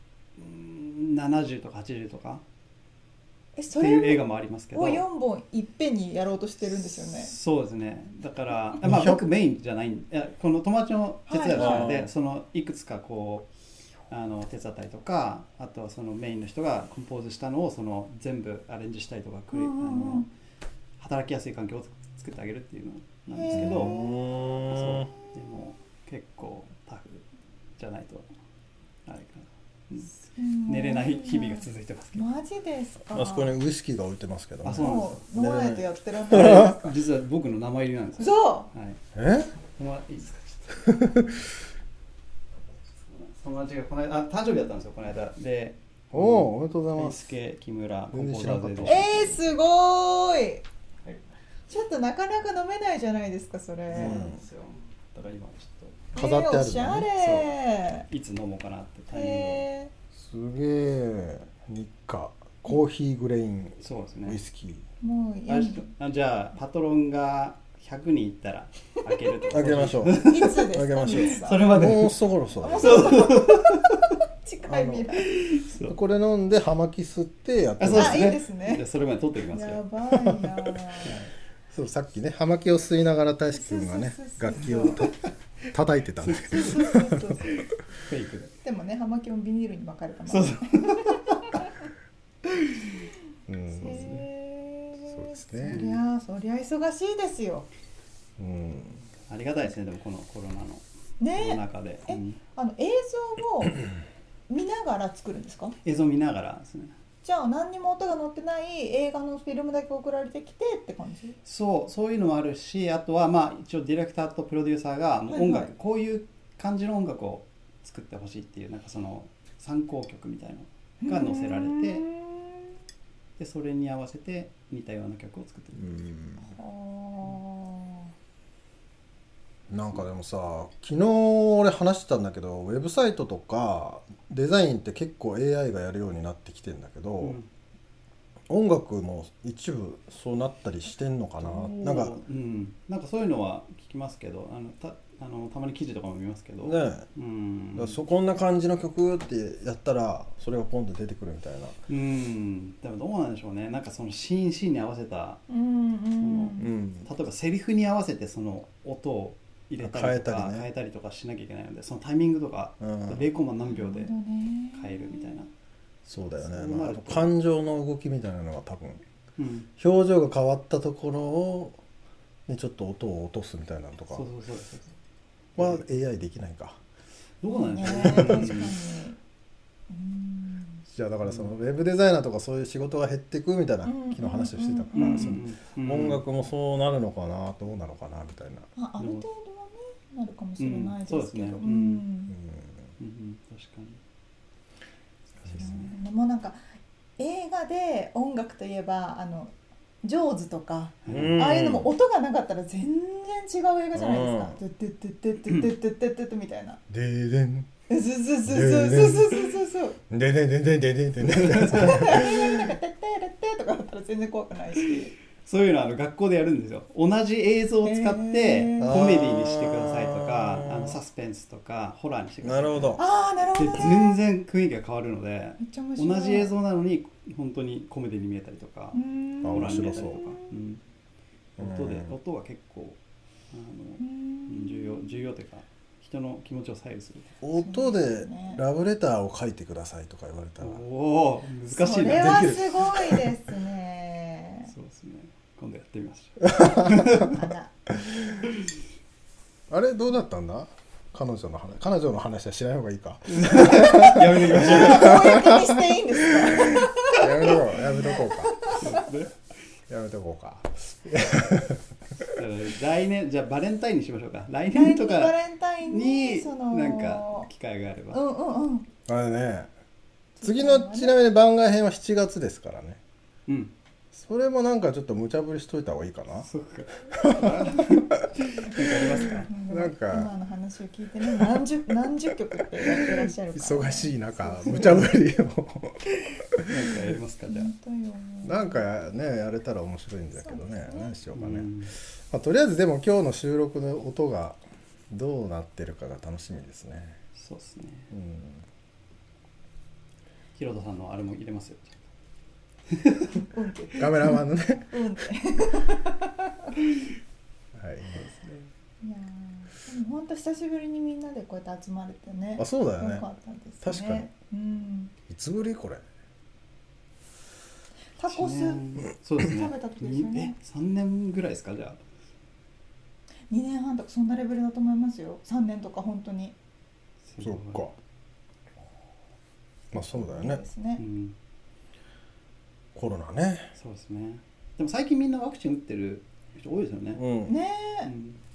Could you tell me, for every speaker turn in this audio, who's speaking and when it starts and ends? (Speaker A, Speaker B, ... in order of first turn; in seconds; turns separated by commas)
Speaker A: 0.4-2.4, Speaker B: 3.6-7.3, Speaker A: 3.7-5.0, Speaker A: 6.6-13.5, Speaker C: 8.8-9.2, Speaker B: 11.3-11.8, Speaker C: 11.5-12.1, Speaker A: 14.1-20.3, Speaker B: 19.5-20.2, Speaker A: 21.0-24.0, Speaker B: 23.3-24.1, Speaker C: 23.5-25.1, Speaker A: 24.7-27.2, Speaker A: 27.8-28.3, Speaker A: 29.1-32.3, Speaker B: 30.4-33.6, Speaker C: 33.1-36.8, Speaker A: 34.6-35.2, Speaker B: 34.8-36.9, Speaker A: 36.3-39.0, Speaker B: 38.2-38.7, Speaker C: 39.1-39.5, Speaker A: 39.8-41.1, Speaker C: 40.9-41.3, Speaker A: 43.0-49.2, Speaker C: 46.1-47.3, Speaker C: 48.1-49.2, Speaker B: 48.8-50.6, Speaker B: 51.7-54.3, Speaker A: 53.9-56.1, Speaker C: 54.0-54.4, Speaker B: 56.1-58.0, Speaker C: 56.1-57.1, Speaker A: 57.2-57.5, Speaker A: 58.1-59.7, Speaker B: 59.1-59.9, Speaker C: 60.1-64.8, Speaker A: 63.8-64.4, Speaker B: 65.0-65.8, Speaker A: 65.5-74.1, Speaker C: 69.5-73.2, Speaker B: 70.2-71.8, Speaker B: 72.6-73.9, Speaker B: 74.4-75.3, Speaker A: 74.7-76.0, Speaker C: 75.9-78.4, Speaker A: 77.8-79.8, Speaker B: 77.9-78.8, Speaker B: 79.5-81.1, Speaker C: 80.2-81.2, Speaker A: 81.0-81.3, Speaker C: 81.7-85.2, Speaker B: 83.5-85.1, Speaker C: 85.7-87.5, Speaker A: 86.2-86.7, Speaker B: 86.3-87.5, Speaker A: 87.5-88.5, Speaker B: 88.6-91.9, Speaker A: 90.3-91.4, Speaker C: 93.5-94.1, Speaker A: 93.8-94.3, Speaker B: 93.8-97.7, Speaker C: 95.1-95.8, Speaker A: 95.7-96.0, Speaker C: 98.4-99.0, Speaker A: 99.3-102.4, Speaker B: 101.2-103.9, Speaker B: 104.5-105.8, Speaker A: 105.8-106.9, Speaker B: 107.2-111.4, Speaker A: 111.4-122.1, Speaker B: 115.3-115.7, Speaker B: 121.0-122.7, Speaker A: 123.4-126.1, Speaker C: 125.8-126.4, Speaker B: 126.5-128.1, Speaker C: 129.7-137.4, Speaker A: 137.2-137.5, Speaker C: 138.5-142.1, Speaker A: 141.4-148.0, Speaker C: 146.6-147.1, Speaker C: 147.8-151.8, Speaker A: 151.9-155.4, Speaker B: 155.5-156.7, Speaker A: 156.2-164.1, Speaker C: 156.6-157.1, Speaker C: 159.8-160.7, Speaker C: 162.8-163.2, Speaker B: 163.6-165.4, Speaker A: 164.8-165.5, Speaker A: 166.1-167.3, Speaker C: 166.1-169.0, Speaker A: 169.4-169.7, Speaker C: 169.8-171.8, Speaker C: 172.5-174.3, Speaker A: 174.1-174.9, Speaker A: 175.6-175.8, Speaker C: 175.6-176.8, Speaker A: 177.4-178.8, Speaker B: 177.5-179.2, Speaker C: 178.0-178.5, Speaker B: 179.9-180.8, Speaker C: 180.9-188.7, Speaker A: 181.2-181.5, Speaker B: 183.8-185.4, Speaker A: 184.9-186.2, Speaker B: 188.8-192.4, Speaker A: 189.0-189.2, Speaker A: 190.6-192.0, Speaker C: 192.3-192.9, Speaker A: 193.0-194.0, Speaker A: 195.4-195.9, Speaker B: 195.5-196.6, Speaker B: 197.2-206.8, Speaker A: 201.0-201.4, Speaker C: 201.1-201.9, Speaker C: 203.9-204.6, Speaker C: 206.9-207.7, Speaker B: 207.9-210.0, Speaker C: 208.5-209.5, Speaker C: 210.1-212.6, Speaker A: 211.4-211.7, Speaker B: 211.6-215.2, Speaker A: 215.4-223.0, Speaker B: 217.8-219.0, Speaker C: 218.8-221.0, Speaker C: 222.4-223.0, Speaker B: 223.0-224.2, Speaker A: 223.6-230.8, Speaker B: 225.6-226.5, Speaker B: 228.9-230.6, Speaker C: 229.4-230.3, Speaker C: 231.6-232.1, Speaker A: 231.6-233.0, Speaker A: 233.5-237.3, Speaker B: 234.0-235.2, Speaker C: 237.4-240.8, Speaker B: 237.5-238.6, Speaker A: 240.6-242.6, Speaker B: 241.7-244.7, Speaker C: 242.0-243.3, Speaker A: 244.7-247.5, Speaker B: 246.6-247.7, Speaker C: 246.6-247.3, Speaker C: 249.7-255.7, Speaker A: 253.3-255.4, Speaker B: 254.5-258.9, Speaker C: 256.7-258.8, Speaker A: 258.7-259.3, Speaker C: 259.9-261.8, Speaker A: 262.3-268.2, Speaker B: 264.7-267.5, Speaker B: 268.1-268.9, Speaker C: 269.1-269.7, Speaker B: 270.4-271.2, Speaker C: 270.4-273.0, Speaker A: 273.5-273.7, Speaker C: 274.1-276.5, Speaker A: 276.4-279.5, Speaker C: 277.1-280.3, Speaker B: 278.9-285.1, Speaker C: 283.1-286.9, Speaker A: 284.7-285.0, Speaker A: 286.7-287.7, Speaker B: 287.5-288.9, Speaker C: 288.4-291.7, Speaker B: 290.4-291.2, Speaker A: 291.3-291.9, Speaker C: 292.3-297.2, Speaker A: 297.3-298.1, Speaker C: 298.1-298.6, Speaker A: 300.5-302.0, Speaker A: 302.9-303.3, Speaker B: 303.3-306.8, Speaker C: 304.0-304.9, Speaker C: 307.8-308.2, Speaker A: 308.1-308.7, Speaker B: 309.0-315.1, Speaker C: 312.6-313.2, Speaker C: 313.8-314.3, Speaker C: 315.3-316.0, Speaker B: 318.2-318.8, Speaker A: 318.3-322.0, Speaker B: 319.4-320.5, Speaker B: 323.5-326.5, Speaker A: 327.3-327.9, Speaker C: 327.4-327.9, Speaker C: 329.9-330.6, Speaker B: 329.9-331.0, Speaker A: 331.0-331.4, Speaker C: 332.9-333.7, Speaker A: 333.8-337.2, Speaker C: 337.1-337.5, Speaker B: 337.5-338.1, Speaker A: 338.0-338.4